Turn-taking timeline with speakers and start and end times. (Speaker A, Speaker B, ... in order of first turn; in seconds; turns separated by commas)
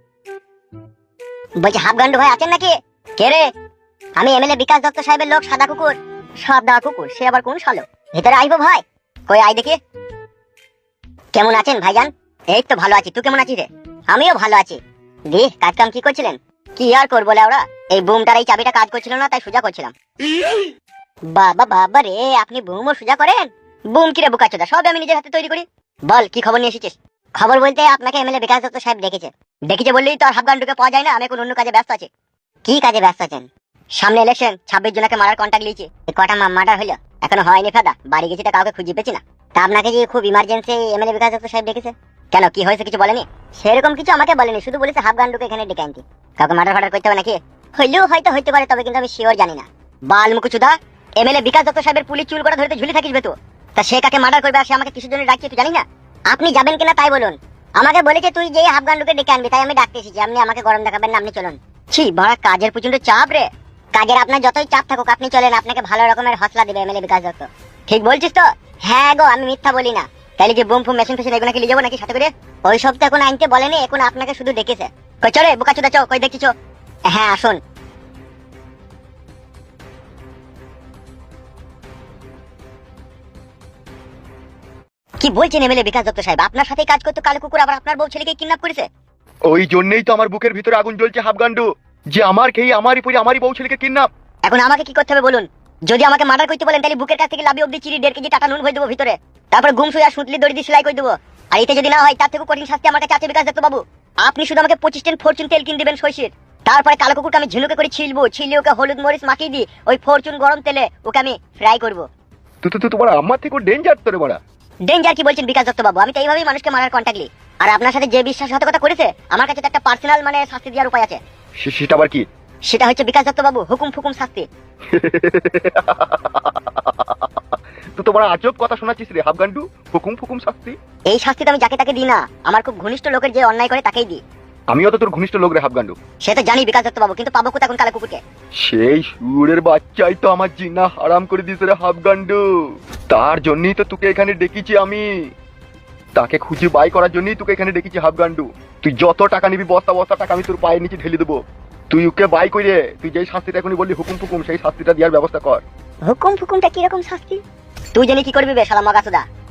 Speaker A: 1.6-3.5, Speaker A: 4.2-9.8, Speaker A: 11.3-19.9, Speaker A: 21.3-32.1, Speaker A: 32.7-33.5, Speaker A: 34.0-76.5, Speaker A: 77.1-77.6, Speaker A: 85.2-88.9, Speaker B: 89.5-94.1, Speaker A: 94.5-112.1, Speaker B: 112.6-114.4, Speaker A: 114.9-121.2, Speaker B: 121.6-122.2, Speaker A: 122.7-124.5, Speaker B: 124.9-127.3, Speaker B: 128.0-130.8, Speaker A: 131.1-134.2, Speaker B: 134.7-136.0, Speaker A: 136.2-138.2, Speaker B: 138.6-142.4, Speaker B: 143.1-145.1, Speaker B: 146.2-151.4, Speaker B: 151.9-155.6, Speaker A: 156.1-157.4, Speaker A: 157.9-159.2